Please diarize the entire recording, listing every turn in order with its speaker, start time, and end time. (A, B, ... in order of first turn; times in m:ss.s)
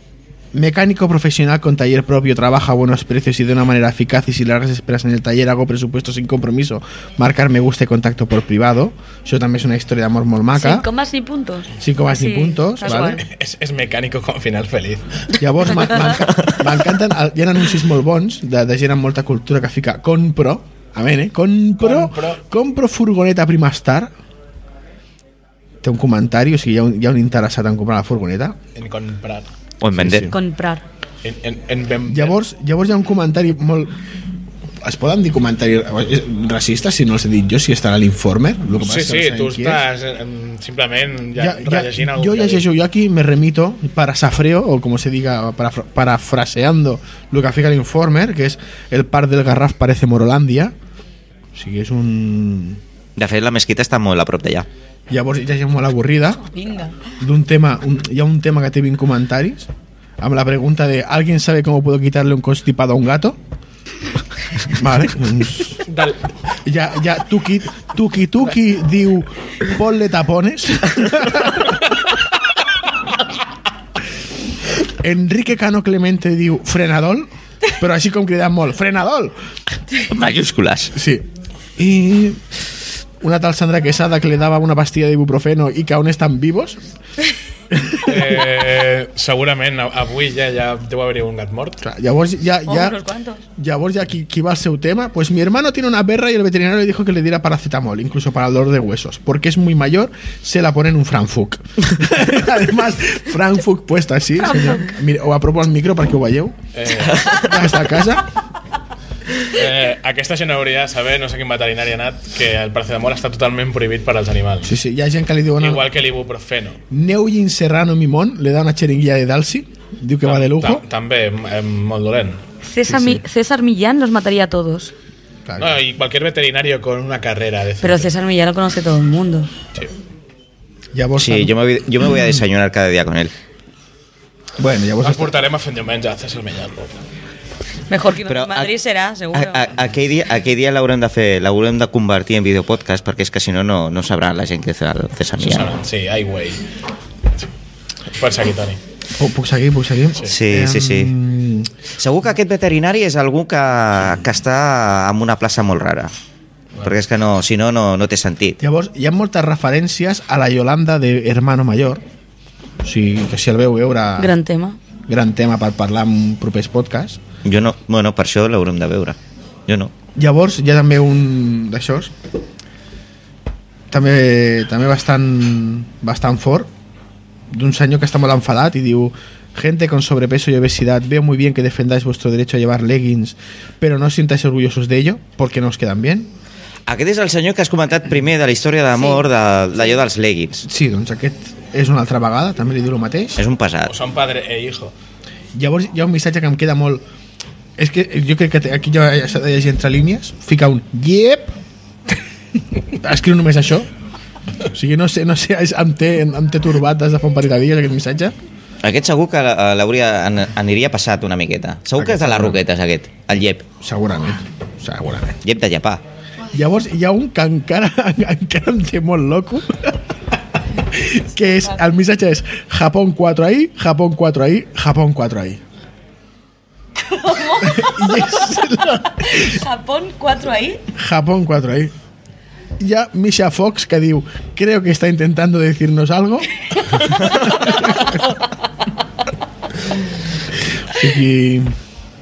0:00.5-0:10.8 A
0:10.5-0:13.2 B
0:11.8-0:13.2 A
0:13.2-0:15.3 C
0:15.4-0:24.1 A
0:21.8-0:22.4 C
0:25.8-0:28.6 A
0:28.7-0:29.5 C
0:29.8-0:30.3 D
0:29.9-0:30.4 A
0:30.3-0:30.8 B
0:31.2-0:32.4 C
0:32.1-0:34.0 A
0:34.8-0:39.8 A
0:38.8-0:42.6 C
0:41.4-0:50.7 A
0:51.5-0:52.8 A
0:53.2-0:54.7 D
0:55.1-0:56.5 A
0:56.5-0:57.0 B
0:57.2-1:03.4 A
1:04.6-1:05.8 A
1:05.8-1:06.2 C
1:06.6-1:11.8 A
1:14.8-1:19.3 A
1:19.9-1:20.9 D
1:20.9-1:22.4 A
1:23.2-1:26.8 A
1:27.7-1:28.4 A
1:28.0-1:31.8 C
1:31.8-1:33.0 A
1:32.7-1:33.4 B
1:33.6-1:48.3 A
1:46.7-1:47.4 C
1:49.4-1:54.7 C
1:54.6-1:55.9 A
1:55.6-1:56.8 C
1:56.9-2:00.8 A
2:00.2-2:02.4 C
2:02.6-2:04.9 B
2:02.9-2:03.2 A
2:05.4-2:05.8 A
2:05.6-2:08.1 C
2:07.8-2:09.5 B
2:10.9-2:11.5 A
2:11.2-2:13.3 D
2:14.6-2:15.4 A
2:15.0-2:17.0 C
2:17.9-2:19.6 B
2:18.3-2:18.7 D
2:19.3-2:25.7 D
2:25.4-2:26.6 C
2:28.1-2:28.8 C
2:29.2-2:31.7 A
2:30.2-2:31.1 D
2:32.0-2:36.1 D
2:36.8-2:38.6 D
2:38.6-2:42.0 A
2:42.8-2:44.3 A
2:44.2-2:44.8 B
2:45.1-2:47.2 A
2:47.4-2:49.9 D
2:50.1-2:52.1 A
2:53.9-2:56.7 A
2:57.5-3:06.3 A
3:06.9-3:10.6 D
3:09.0-3:09.2 B
3:10.6-3:13.4 A
3:13.4-3:13.9 D
3:13.8-3:14.9 C
3:15.5-3:17.0 A
3:17.8-3:21.6 A
3:22.9-3:23.9 A
3:24.6-3:28.4 A
3:28.8-3:33.7 D
3:32.0-3:32.6 A
3:33.8-3:35.4 A
3:35.4-3:36.0 D
3:36.5-3:40.1 A
3:40.7-3:45.6 A
3:47.0-3:50.8 B
3:47.6-3:49.6 A
3:50.9-3:51.9 A
3:52.8-3:58.3 A
4:00.8-4:01.7 A